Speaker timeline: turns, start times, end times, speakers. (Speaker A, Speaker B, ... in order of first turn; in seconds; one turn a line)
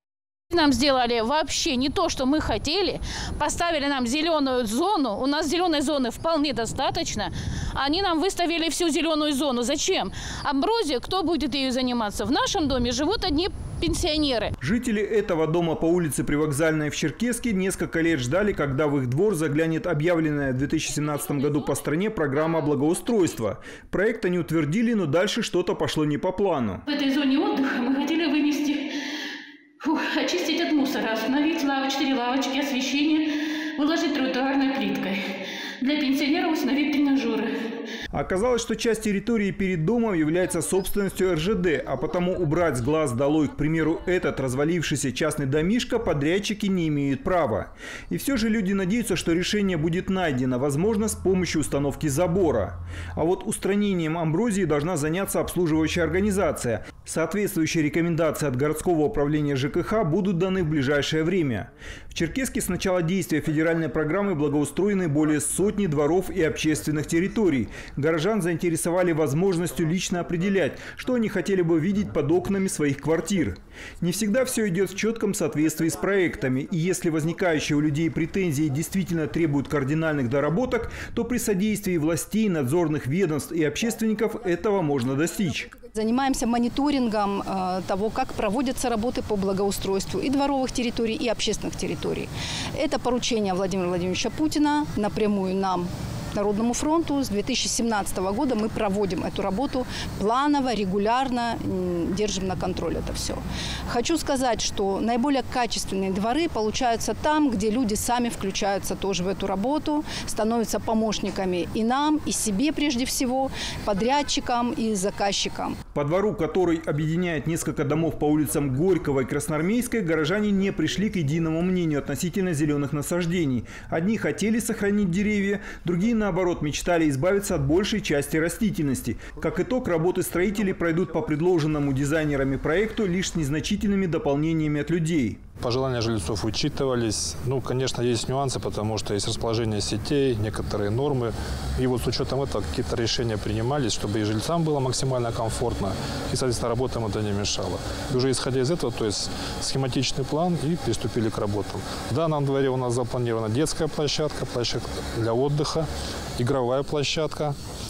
Speaker A: 0.5-14.5
Speaker B: 14.6-26.8
Speaker A: 20.9-21.8
Speaker A: 26.9-28.8
Speaker A: 29.8-33.2
Speaker A: 33.8-35.2
Speaker A: 35.8-37.5
Speaker B: 38.1-85.7
Speaker C: 85.9-115.8
Speaker B: 115.9-135.4
Speaker D: 135.6-157.6